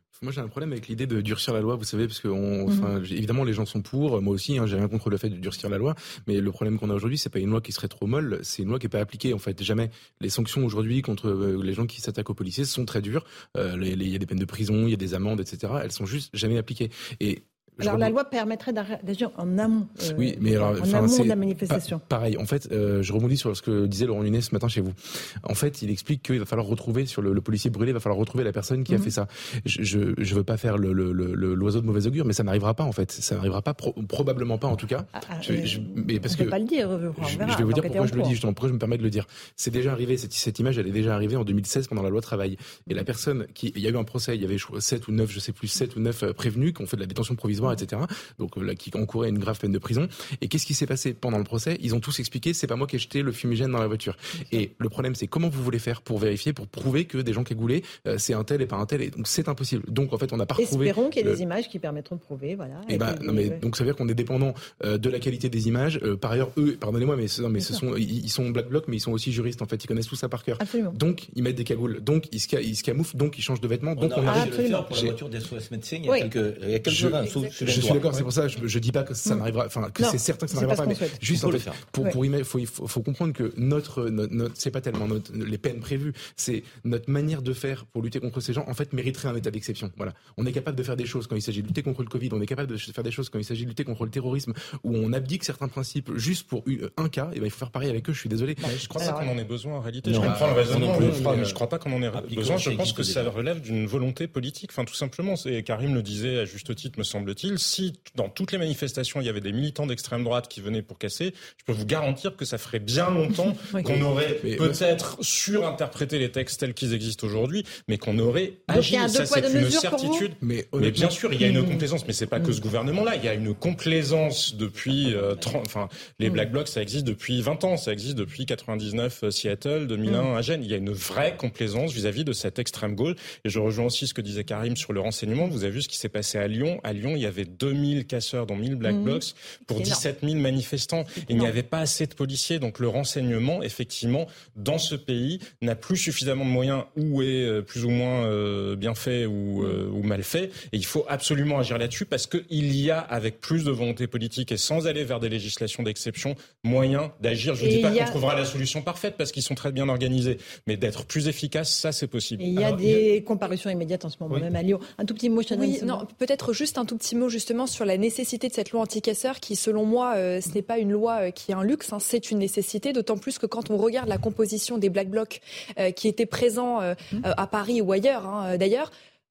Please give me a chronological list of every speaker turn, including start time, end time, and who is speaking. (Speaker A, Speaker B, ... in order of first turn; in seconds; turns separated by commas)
Speaker A: 0.1-18.1, Speaker B: 17.8-22.0, Speaker A: 20.1-36.5, Speaker B: 35.1-38.4, Speaker A: 37.2-61.4, Speaker B: 60.6-63.6, Speaker A: 62.9-75.2, Speaker B: 67.6-67.8, Speaker B: 70.6-71.0, Speaker C: 74.0-78.1, Speaker B: 74.3-74.9, Speaker B: 76.0-76.3, Speaker A: 76.8-99.2, Speaker D: 77.2-77.5, Speaker B: 80.0-81.2, Speaker C: 81.3-81.9, Speaker B: 98.6-99.3, Speaker E: 98.8-163.0, Speaker C: 100.0-101.4, Speaker A: 100.1-101.6, Speaker C: 102.1-103.3, Speaker B: 113.7-114.0, Speaker A: 114.4-114.8, Speaker B: 118.7-120.3, Speaker A: 120.4-121.2, Speaker B: 121.4-121.8, Speaker B: 138.8-140.0, Speaker B: 141.2-141.5, Speaker B: 157.6-158.2, Speaker B: 162.4-166.0, Speaker D: 165.5-178.9